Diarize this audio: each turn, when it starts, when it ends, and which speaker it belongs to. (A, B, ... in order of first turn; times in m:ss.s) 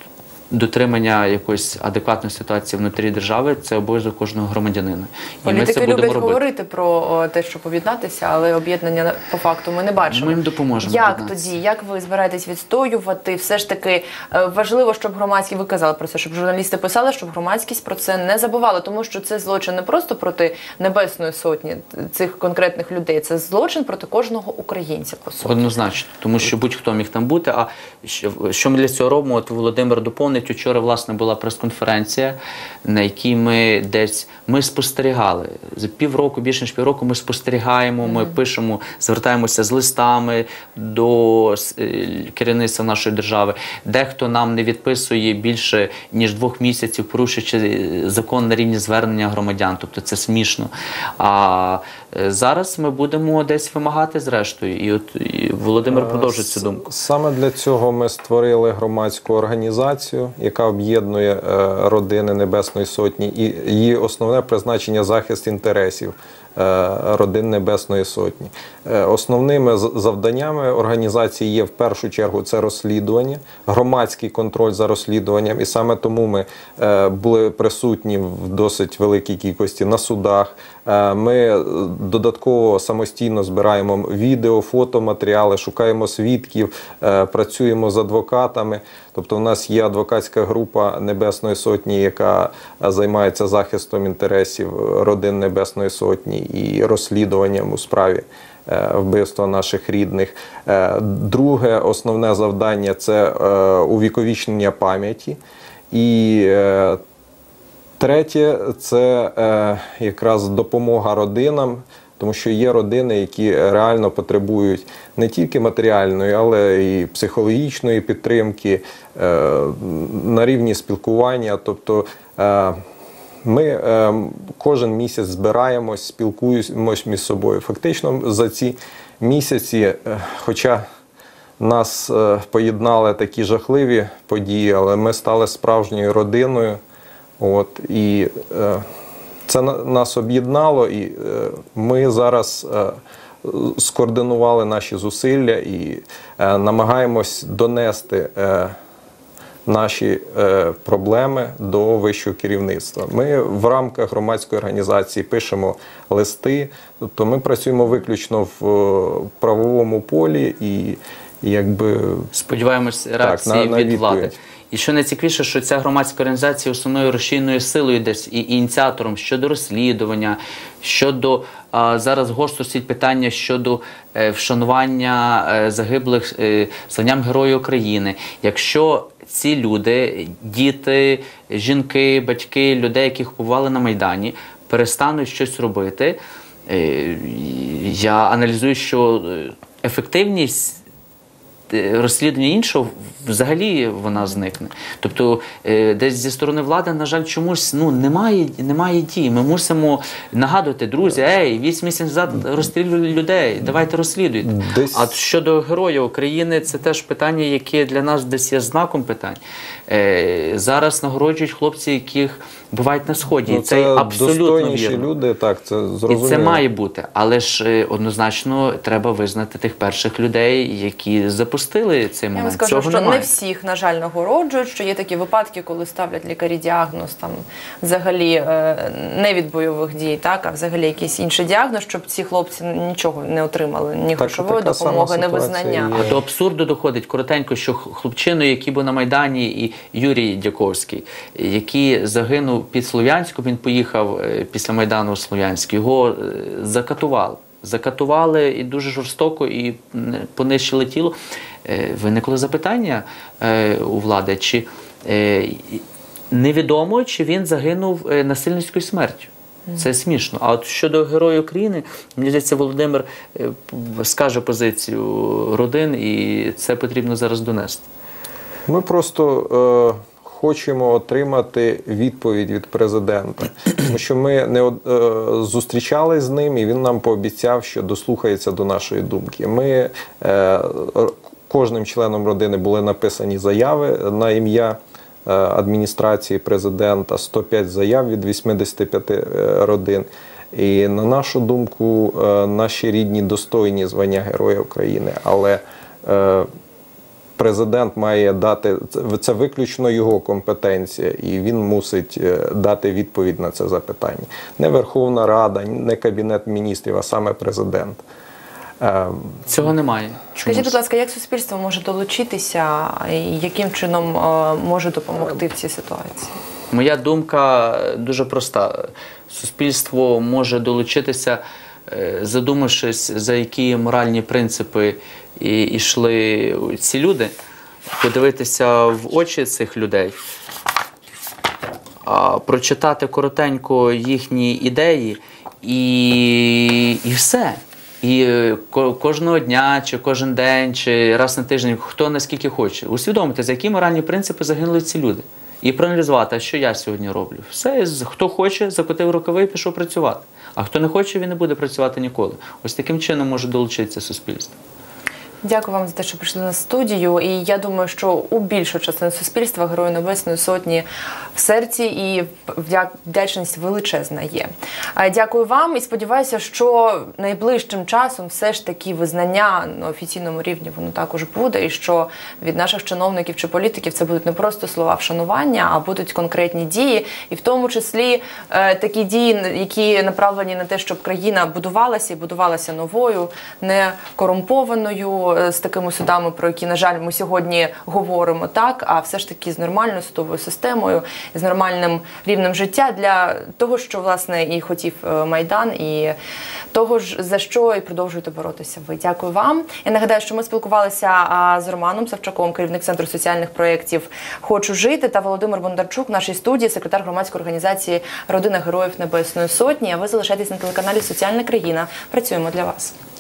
0:00.5-0:06.4 A
0:05.4-0:25.6 B
0:10.1-0:11.6 A
0:25.4-0:56.9 A
0:55.9-1:45.4 C
1:45.9-1:47.0 C
1:48.0-2:02.8 C
2:03.4-2:10.8 C
2:11.6-2:16.8 C
2:17.4-2:18.8 C
2:19.5-2:28.7 C
2:29.7-2:42.3 C
2:42.3-3:10.8 A
2:43.2-2:44.4 C
3:11.7-3:35.1 A
3:24.4-3:25.1 C
3:33.5-3:36.6 C
3:36.1-3:43.3 A
3:42.4-3:56.0 B
3:54.2-3:56.2 C
3:56.0-4:27.8 A
4:28.7-4:56.5 C
4:57.4-5:08.0 C
5:08.8-5:09.4 C
5:09.5-5:10.8 A
5:10.4-5:16.4 B
5:16.7-5:27.3 A
5:28.0-5:30.2 A
5:32.0-5:54.6 A
5:55.4-6:36.2 B
6:36.7-6:53.0 B